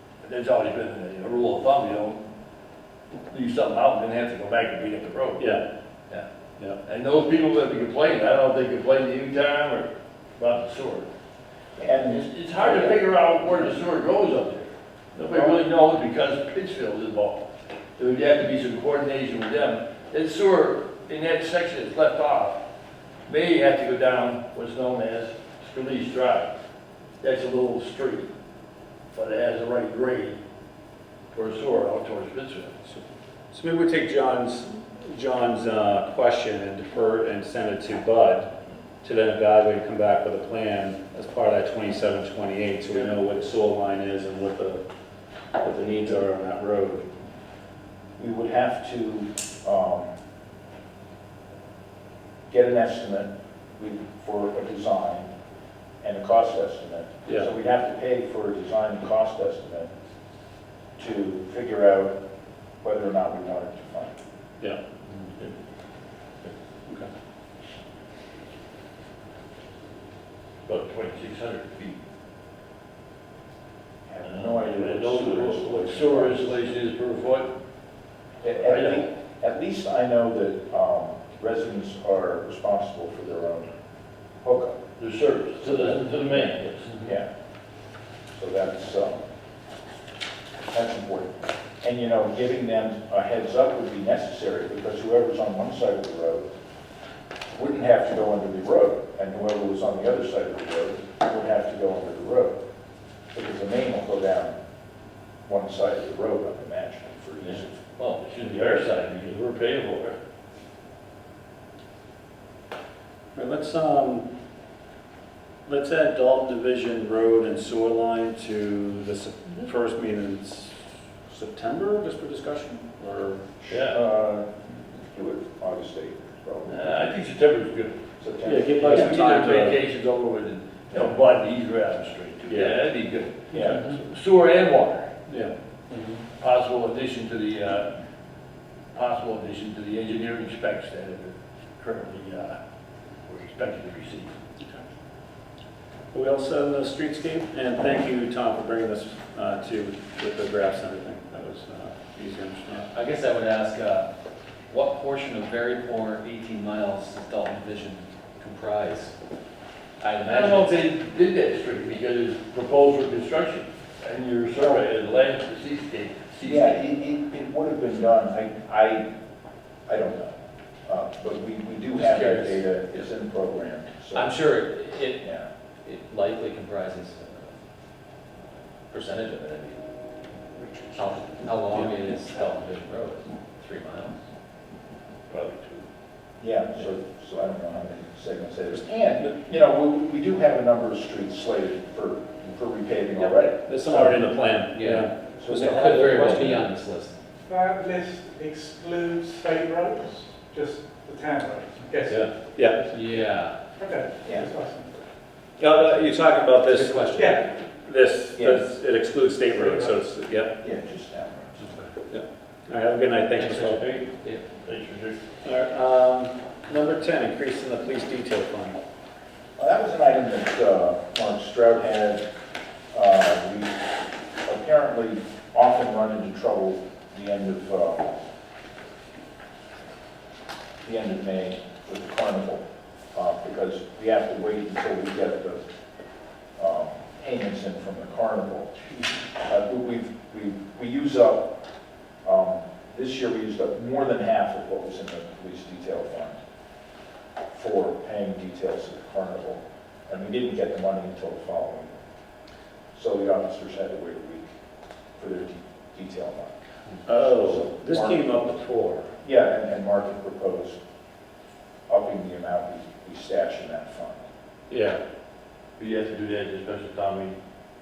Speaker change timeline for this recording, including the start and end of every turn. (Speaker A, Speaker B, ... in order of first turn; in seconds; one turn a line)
Speaker A: 0.2-2.2
Speaker A: 3.3-5.5
Speaker B: 5.4-5.6
Speaker A: 6.8-11.1
Speaker C: 11.8-13.0
Speaker A: 12.1-22.6
Speaker A: 23.3-26.5
Speaker A: 27.2-28.3
Speaker A: 29.1-30.4
Speaker A: 31.3-32.8
Speaker B: 33.5-38.5
Speaker B: 39.0-44.8
Speaker B: 45.6-47.1
Speaker C: 48.2-50.1
Speaker C: 52.5-55.3
Speaker C: 56.0-59.9
Speaker B: 57.3-57.5
Speaker C: 61.0-62.2
Speaker C: 62.8-64.2
Speaker A: 70.7-72.0
Speaker C: 74.1-76.7
Speaker A: 74.2-77.5
Speaker C: 78.4-83.7
Speaker A: 78.6-79.1
Speaker C: 84.4-84.8
Speaker A: 85.0-87.0
Speaker C: 87.0-87.3
Speaker C: 88.3-89.2
Speaker C: 90.7-96.5
Speaker C: 97.5-102.6
Speaker C: 103.3-104.6
Speaker C: 105.5-107.7
Speaker A: 107.4-110.2
Speaker B: 113.3-114.3
Speaker B: 115.7-120.8
Speaker B: 121.3-123.7
Speaker A: 123.7-124.0
Speaker C: 123.7-127.1
Speaker A: 126.7-128.0
Speaker C: 128.2-129.0
Speaker B: 128.4-129.8
Speaker A: 128.8-135.1
Speaker B: 132.5-132.9
Speaker C: 133.5-133.8
Speaker B: 135.3-136.2
Speaker A: 136.4-137.9
Speaker A: 138.9-142.6
Speaker A: 143.3-144.4
Speaker B: 146.1-152.9
Speaker D: 152.9-154.1
Speaker D: 154.7-159.1
Speaker D: 160.0-160.8
Speaker A: 160.3-166.9
Speaker C: 164.6-164.8
Speaker C: 166.4-169.1
Speaker C: 169.9-174.5
Speaker D: 172.0-173.1
Speaker D: 174.1-175.3
Speaker C: 175.2-175.5
Speaker D: 175.8-177.5
Speaker D: 178.5-179.8
Speaker D: 180.9-184.2
Speaker A: 185.3-185.9
Speaker C: 186.4-193.6
Speaker B: 193.7-196.7
Speaker A: 193.9-194.3
Speaker D: 194.7-197.2
Speaker C: 195.4-196.5
Speaker E: 197.5-202.2
Speaker B: 202.5-202.9
Speaker D: 202.9-203.6
Speaker E: 203.8-204.9
Speaker C: 204.2-204.5
Speaker B: 205.6-210.6
Speaker D: 205.7-207.3
Speaker C: 208.4-208.6
Speaker C: 210.6-211.5
Speaker A: 211.6-211.9
Speaker B: 212.1-214.1
Speaker D: 213.4-214.4
Speaker A: 213.6-214.1
Speaker A: 214.6-215.2
Speaker B: 215.4-218.8
Speaker C: 219.6-222.2
Speaker C: 222.9-223.7
Speaker C: 224.4-228.2
Speaker C: 230.8-235.6
Speaker C: 236.6-238.8
Speaker C: 239.4-241.5
Speaker C: 242.2-246.4
Speaker C: 247.5-251.9
Speaker C: 252.9-254.5
Speaker C: 255.2-256.5
Speaker B: 257.1-259.1
Speaker C: 257.2-258.4
Speaker C: 259.2-260.8
Speaker C: 261.9-264.2
Speaker B: 264.7-265.0
Speaker A: 265.8-267.4